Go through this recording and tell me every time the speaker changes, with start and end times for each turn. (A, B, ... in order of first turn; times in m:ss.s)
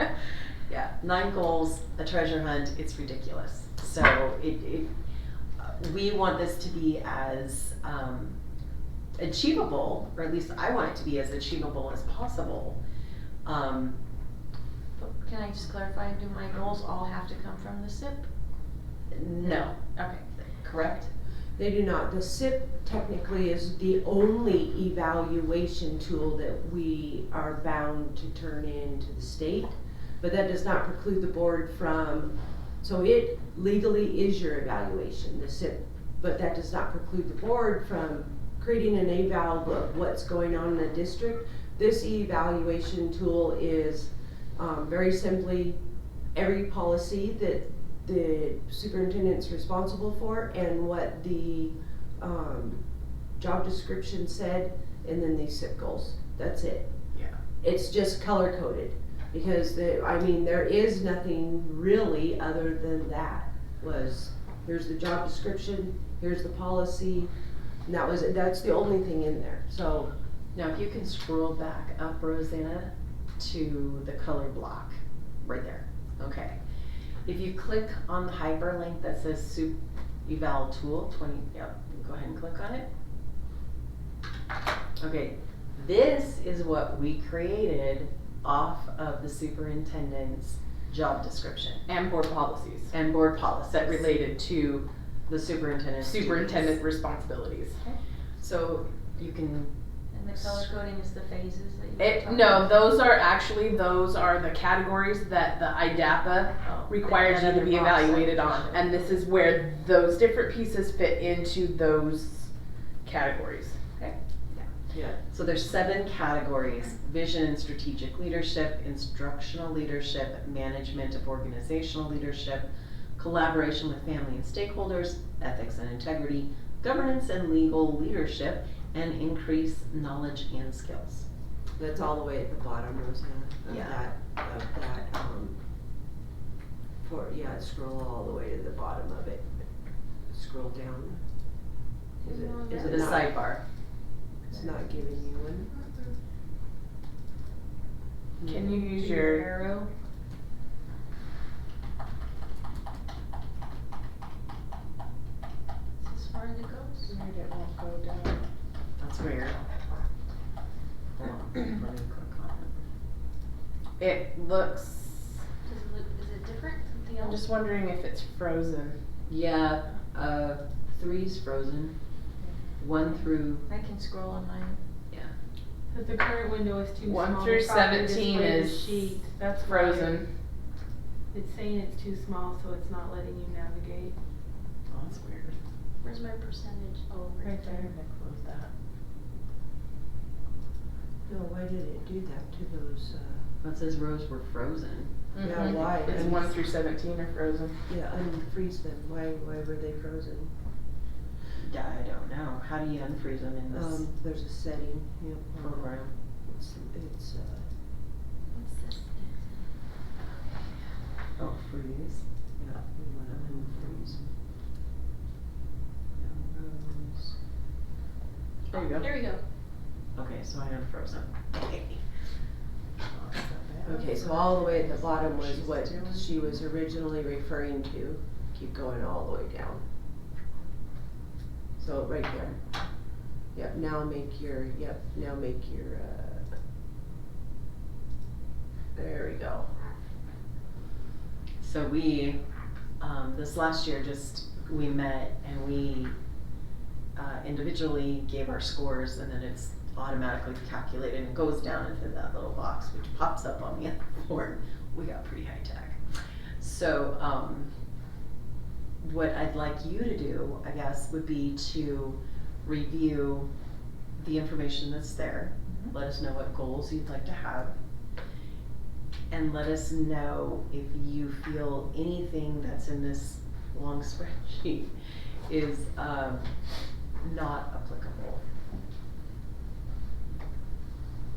0:00.7-0:04.9 A
0:05.6-0:08.4 A
0:09.2-0:12.8 A
0:13.4-0:14.0 A
0:15.0-0:18.3 B
0:19.1-0:19.8 A
0:19.4-0:20.2 B
0:20.4-0:21.1 A
0:21.6-0:45.8 C
0:46.3-0:52.8 C
0:53.4-0:56.9 C
0:57.6-1:07.3 C
1:07.8-1:10.1 C
1:10.5-1:16.6 A
1:17.2-1:22.9 A
1:25.0-1:31.8 A
1:31.8-1:32.9 D
1:32.9-1:34.4 A
1:33.6-1:34.8 D
1:35.3-1:36.8 A
1:36.0-1:37.8 D
1:38.4-1:39.7 A
1:40.1-1:42.9 B
1:40.3-1:40.7 A
1:42.0-1:52.5 D
1:46.9-1:49.0 B
1:53.0-1:53.8 D
1:54.9-1:55.2 C
1:55.2-2:11.2 A
2:11.8-2:15.6 C
2:13.6-2:14.0 A
2:17.0-2:19.5 C
2:20.3-2:21.2 C
2:22.2-2:23.3 B
2:22.2-2:23.3 C
2:22.7-2:23.6 A
2:24.4-2:25.0 B
2:24.5-2:25.7 C
2:25.8-2:26.1 B
2:28.4-2:29.5 D
2:28.6-2:29.9 B
2:36.0-2:37.1 B
2:37.0-2:38.4 D
2:39.0-2:39.6 A
2:41.2-2:42.8 A
2:44.0-2:45.4 D
2:45.6-2:47.5 B
2:47.2-2:49.0 D
2:49.3-2:52.0 A
2:52.8-2:53.7 A
2:53.6-2:54.8 B
2:55.9-3:00.2 E
2:57.0-3:00.3 D
3:01.3-3:04.1 E
3:04.9-3:05.6 A
3:06.0-3:07.9 B
3:07.4-3:07.9 E
3:08.0-3:08.7 A
3:11.2-3:13.4 C
3:13.6-3:15.1 A
3:15.3-3:17.8 D
3:15.4-3:16.5 C
3:17.9-3:20.5 C
3:21.6-3:24.0 A
3:23.7-3:27.7 C
3:25.6-3:26.1 A
3:28.5-3:29.6 B
3:31.4-3:34.3 A
3:36.2-3:37.3 A
3:38.7-3:39.4 B
3:38.7-3:39.1 D
3:40.1-3:42.0 A
3:43.1-3:46.4 A
3:43.8-3:49.8 C
3:51.8-3:52.6 C
3:53.5-3:56.4 C
3:58.9-3:59.7 C
4:01.6-4:02.4 A
4:03.0-4:06.2 A
4:07.2-4:16.0 A
4:16.6-4:17.7 A
4:19.0-4:23.5 A
4:24.2-4:27.7 A
4:29.3-4:34.9 A
4:35.5-4:36.5 A
4:37.2-4:38.4 A